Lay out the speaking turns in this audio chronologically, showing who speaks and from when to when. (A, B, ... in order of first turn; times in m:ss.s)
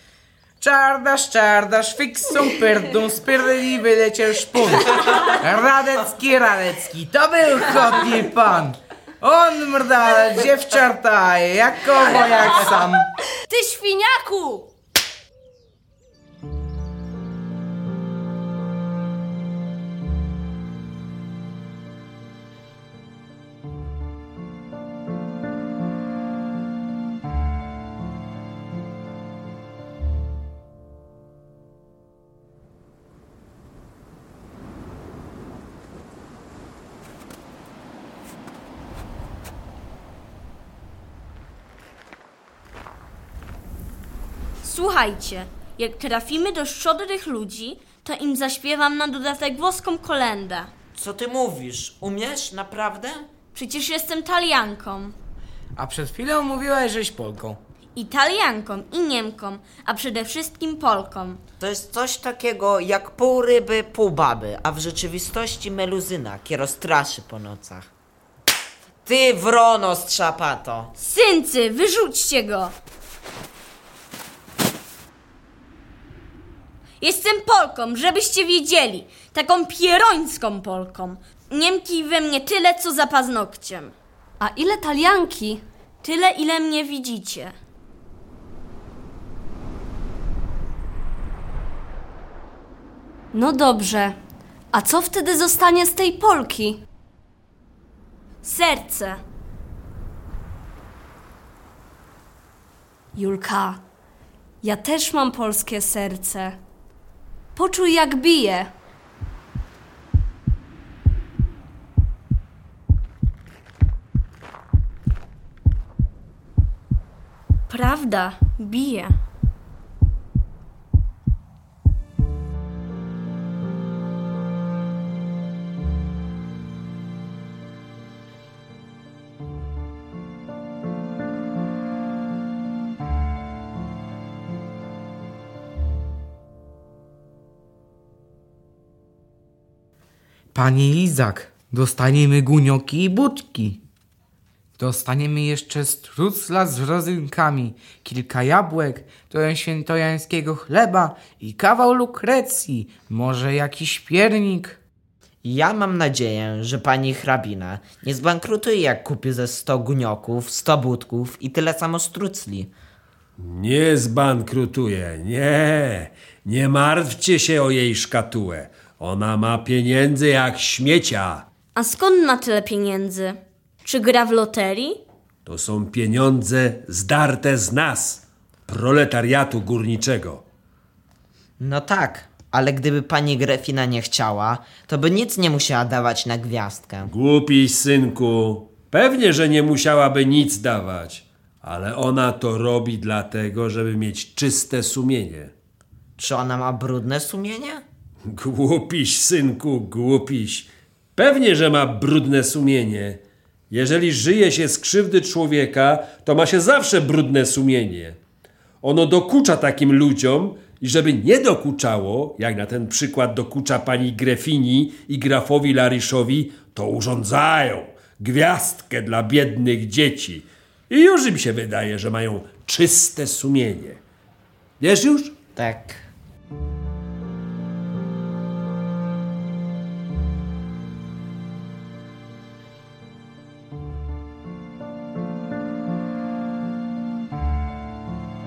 0:00.6-0:13.1 A
0:13.4-0:14.7 B
0:44.6-0:50.7 C
0:51.0-0:53.2 D
0:53.5-0:55.1 C
0:55.8-0:57.6 A
0:58.0-1:01.4 C
1:01.6-1:07.9 D
1:09.0-1:10.9 D
1:11.0-1:12.7 C
1:17.0-1:23.9 C
1:24.4-1:25.6 B
1:26.0-1:27.5 C
1:33.3-1:34.2 B
1:34.7-1:36.8 B
1:38.4-1:39.2 C
1:43.1-1:43.8 B
1:44.6-1:46.6 B
1:47.6-1:48.7 B
1:57.7-1:59.2 C
2:20.5-2:23.8 A
2:24.8-2:34.8 A
2:35.4-2:42.7 D
2:43.4-2:51.4 E
2:51.8-2:55.0 C
2:55.5-3:00.4 E
3:01.6-3:07.1 D
3:07.1-3:15.5 E
3:16.2-3:17.8 D
3:18.3-3:28.2 E
3:28.8-3:44.0 E
3:44.8-3:45.4 E
3:45.6-3:46.1 D